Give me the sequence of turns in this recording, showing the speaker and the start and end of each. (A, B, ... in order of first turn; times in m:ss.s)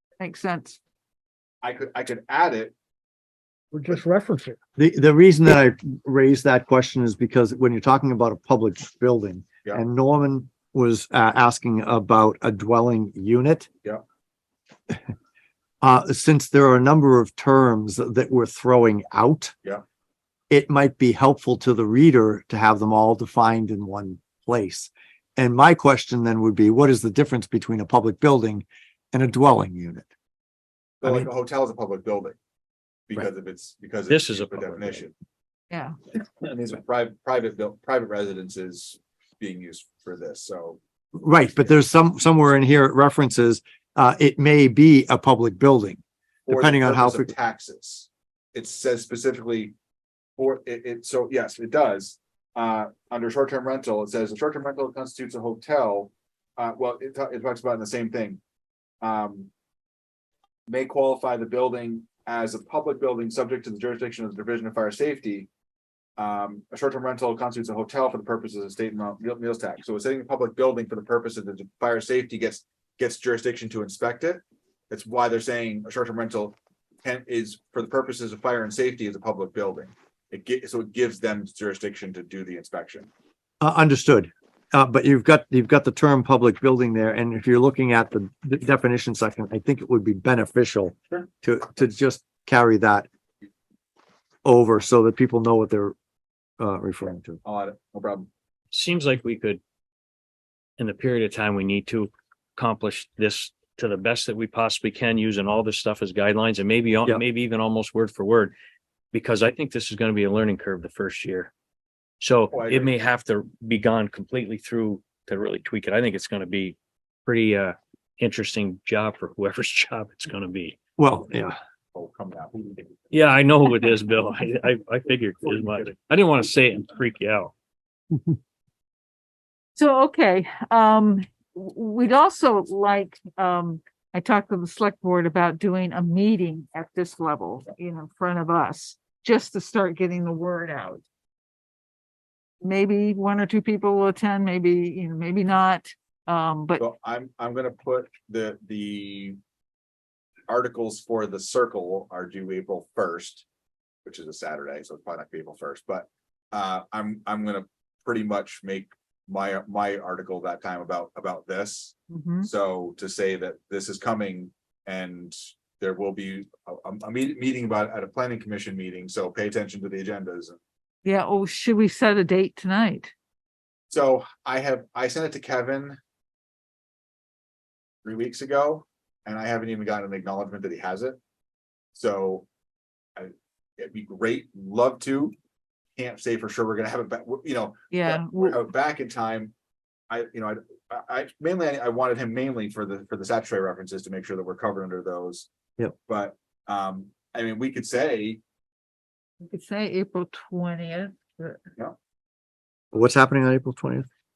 0:00.2-0:00.8 A
0:01.6-0:02.7 B
0:03.7-0:04.6 C
0:04.8-0:13.7 D
0:15.8-0:19.6 D
0:20.5-0:30.1 D
0:31.0-0:32.4 B
0:31.0-0:31.3 D
0:33.1-0:35.1 B
0:34.1-0:35.0 C
0:36.1-0:40.8 B
0:41.2-0:47.3 D
0:46.5-0:49.7 B
0:50.4-0:58.4 B
0:59.0-0:59.5 B
1:00.7-1:05.5 B
1:06.2-1:23.1 B
1:23.6-1:33.1 D
1:34.4-1:36.0 D
1:36.6-1:37.4 D
1:37.4-1:38.3 B
1:38.7-1:39.6 C
1:40.8-1:48.5 C
1:49.1-1:51.5 C
1:52.2-2:00.8 C
1:52.5-1:53.0 B
2:01.0-2:01.6 D
2:01.9-2:03.2 B
2:03.1-2:07.5 C
2:09.8-2:21.0 A
2:22.6-2:26.8 A
2:26.8-2:29.4 B
2:30.5-2:33.5 B
2:34.0-2:50.6 B
2:42.1-2:42.5 A
2:51.0-2:53.1 A
2:53.9-2:56.0 B
2:58.0-3:01.2 B
3:01.9-3:02.5 B
3:03.2-3:05.3 B
3:06.0-3:09.5 B
3:07.9-3:08.6 A
3:10.1-3:15.5 B
3:16.1-3:18.4 B
3:19.5-3:21.6 A
3:22.9-3:24.1 D